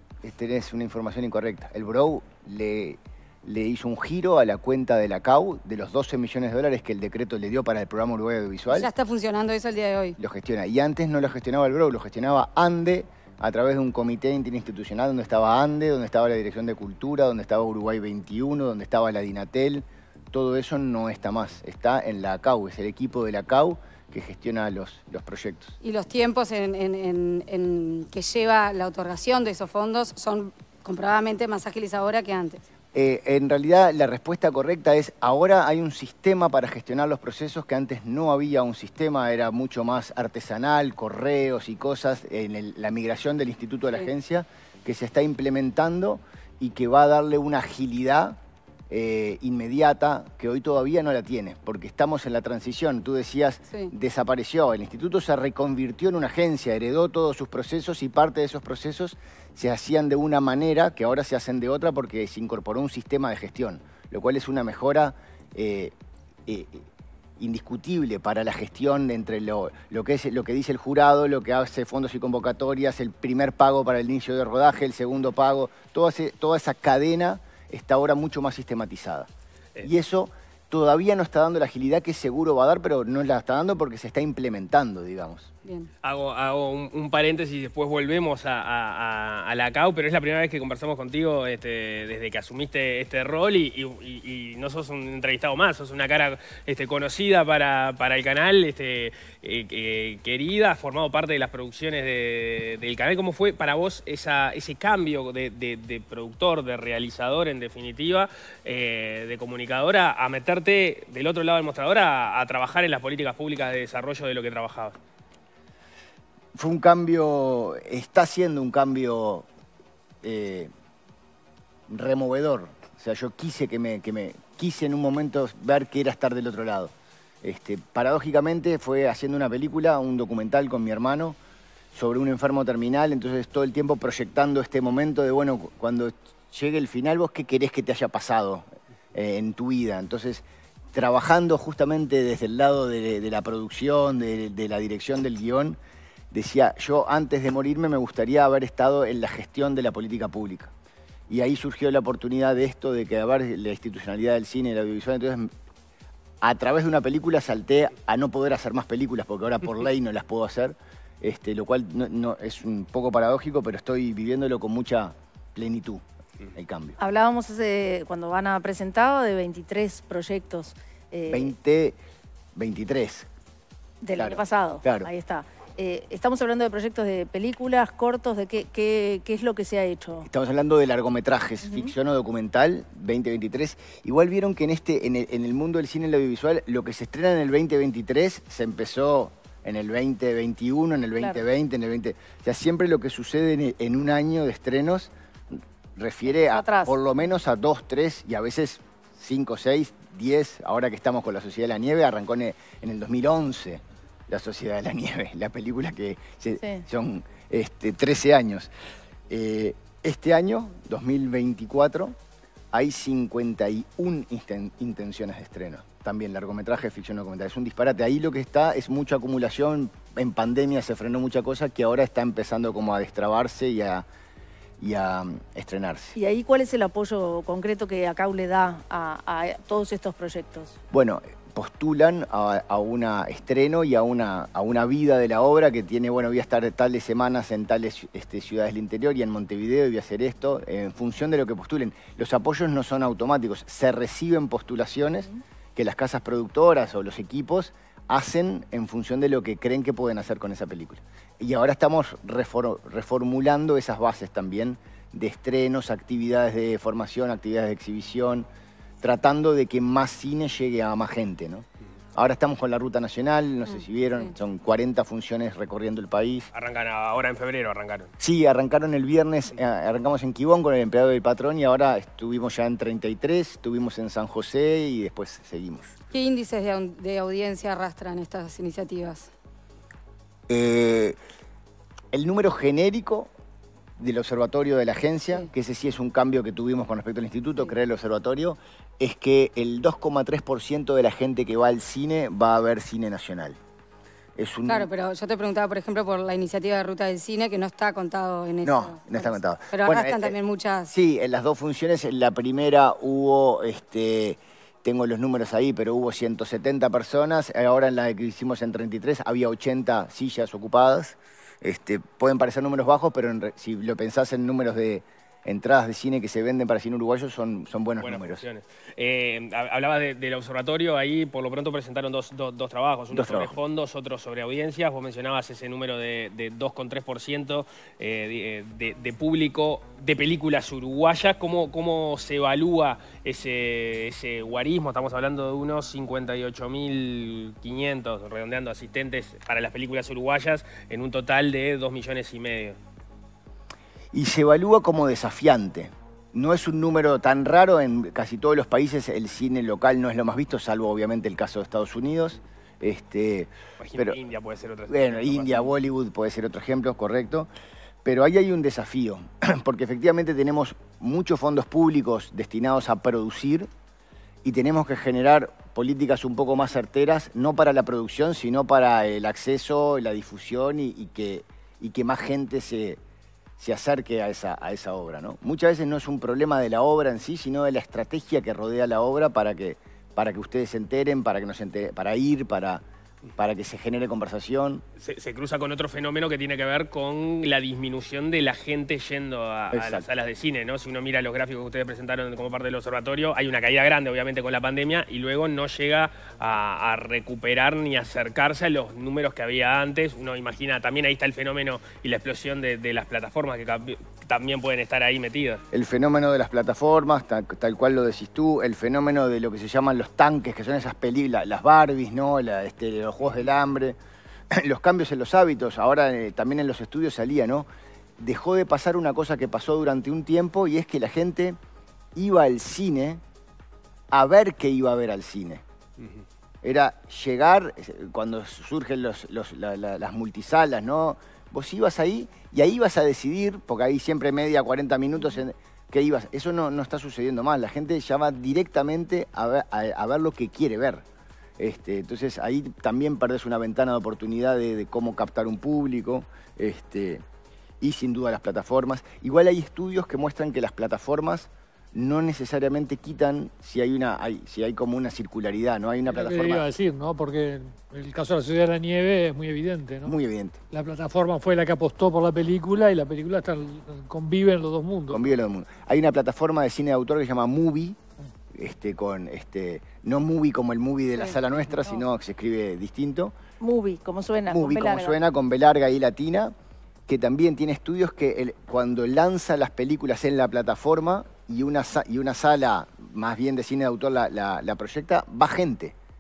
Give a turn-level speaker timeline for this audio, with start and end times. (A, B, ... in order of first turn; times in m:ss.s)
0:00.2-0:08.9 A
0:08.7-0:10.2 B
0:10.2-0:25.8 A
0:25.8-0:32.6 B
0:32.9-0:48.4 A
0:48.9-1:05.9 A
1:06.5-1:06.8 A
1:07.4-1:19.3 A
1:19.8-1:25.5 A
1:25.6-1:25.9 B
1:26.0-1:54.9 C
1:56.5-1:59.5 A
2:00.2-2:00.7 A
2:01.9-2:11.4 A
2:11.9-2:25.8 A
2:26.3-2:30.7 A
2:31.3-2:35.5 A
2:36.4-2:46.0 A
2:46.5-2:47.0 A
2:47.0-2:51.5 D
2:51.3-2:52.0 A
2:52.5-2:53.3 A
2:54.0-3:00.3 D
2:54.2-2:55.1 A
3:00.2-3:28.7 A
3:01.6-3:01.9 D
3:16.5-3:17.0 D
3:29.3-3:32.2 A
3:32.7-3:44.0 A
3:44.8-3:46.2 A
3:46.2-3:50.8 D
3:50.9-4:18.5 A
4:19.0-4:26.5 A
4:26.5-4:28.1 C
4:28.2-4:35.9 A
4:36.1-4:39.3 B
4:40.5-4:41.2 A
4:42.1-4:43.3 A
4:44.0-4:53.6 A
4:54.4-4:54.9 A
4:54.7-5:00.9 B
4:58.6-5:00.3 A
5:00.9-5:18.4 A
5:18.0-5:42.8 C
5:23.1-5:23.6 A
5:44.1-5:54.2 A
5:53.8-5:55.7 C
5:54.9-5:57.5 A
5:58.0-6:03.7 A
6:04.4-6:13.0 A
6:13.6-6:22.8 A
6:23.4-6:24.8 A
6:25.0-6:45.6 C
6:29.7-6:30.1 A
6:45.7-6:54.0 A
6:54.5-6:57.7 A
6:58.2-7:01.6 A
7:02.1-7:03.2 A
7:04.1-7:05.6 A
7:06.6-7:21.0 A
7:21.6-7:27.2 A
7:27.8-7:36.7 A
7:36.1-7:40.1 E
7:40.0-7:40.6 A
7:40.7-7:45.2 E
7:45.1-7:48.0 A
7:48.5-7:53.3 A
7:53.6-7:55.1 D
7:54.5-7:56.5 A
7:57.1-8:05.9 A